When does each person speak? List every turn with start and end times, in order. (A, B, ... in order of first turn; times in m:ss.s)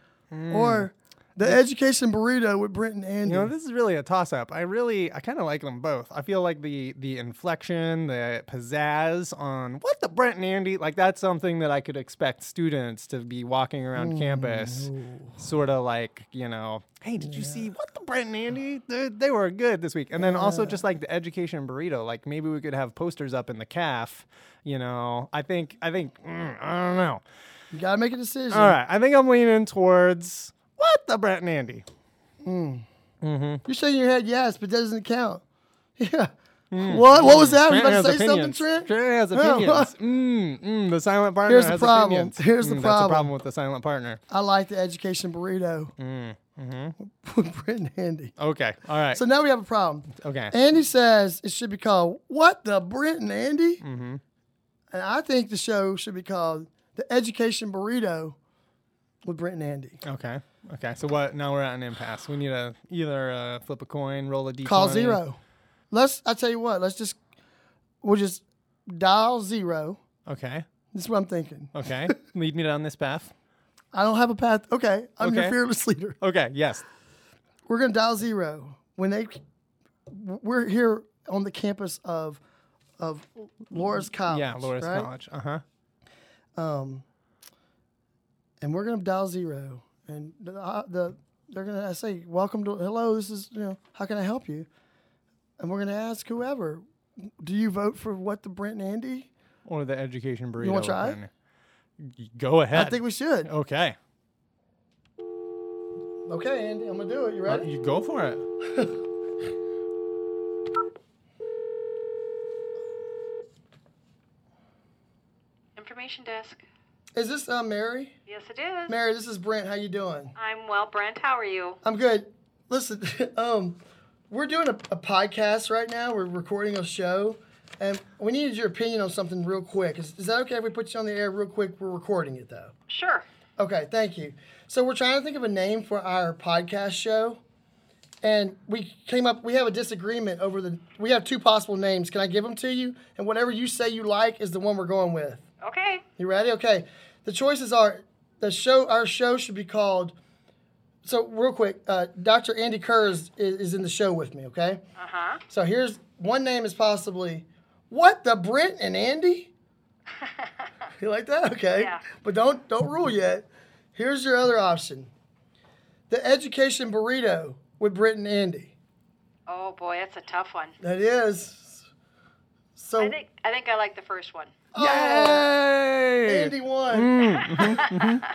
0:00.3-0:00.9 A
0:00.5-0:03.5 B
0:03.2-0:27.2 A
0:14.0-0:15.4 B
0:17.2-0:17.6 B
0:20.2-0:20.8 B
0:27.7-0:28.8 B
0:28.5-0:31.9 A
0:32.4-0:32.9 B
0:33.2-0:33.6 A
0:33.6-0:35.4 B
0:36.0-0:39.9 B
0:36.7-0:44.2 A
0:41.4-0:43.3 B
0:44.3-0:45.9 B
0:46.0-0:47.0 A
0:47.0-0:48.4 B
0:48.4-0:49.2 A
0:49.1-0:53.8 B
0:50.1-0:50.5 A
0:53.8-0:54.2 A
0:54.9-0:58.4 B
0:59.2-1:00.0 B
1:00.0-1:05.2 A
1:04.6-1:05.4 B
1:05.9-1:07.2 B
1:08.0-1:10.0 B
1:10.3-1:10.7 A
1:10.9-1:12.2 B
1:11.7-1:13.3 A
1:13.9-1:16.2 B
1:15.2-1:15.6 A
1:16.2-1:16.8 A
1:17.7-1:19.4 B
1:20.1-1:22.4 B
1:23.0-1:25.1 B
1:24.3-1:25.6 A
1:26.6-1:27.0 B
1:28.6-1:34.7 B
1:35.6-1:39.3 B
1:39.6-1:41.3 A
1:40.6-1:41.2 B
1:42.0-1:44.0 A
1:42.7-1:43.5 B
1:46.3-1:47.7 B
1:47.5-1:48.4 A
1:48.6-1:49.0 B
1:55.8-1:56.6 C
1:57.2-1:58.2 B
1:58.3-1:59.0 C
1:58.9-2:00.3 B
2:00.4-2:01.8 C
2:01.8-2:12.7 B
2:12.9-2:13.2 C
2:13.6-2:17.4 B
2:18.2-2:25.4 B
2:25.6-2:26.0 C
2:26.2-2:30.2 B
2:31.0-2:34.8 B
2:35.0-2:35.4 C
2:35.5-2:39.5 B
2:40.2-2:40.5 C
2:41.0-2:45.1 B
2:41.8-2:42.0 C
2:46.1-2:48.8 B
2:49.5-2:50.8 C
2:50.8-2:51.9 B
2:52.8-2:53.2 B
2:53.0-2:54.5 C
2:54.7-2:55.5 B
2:54.8-2:58.2 A
2:56.2-2:57.9 B
2:57.4-2:58.2 C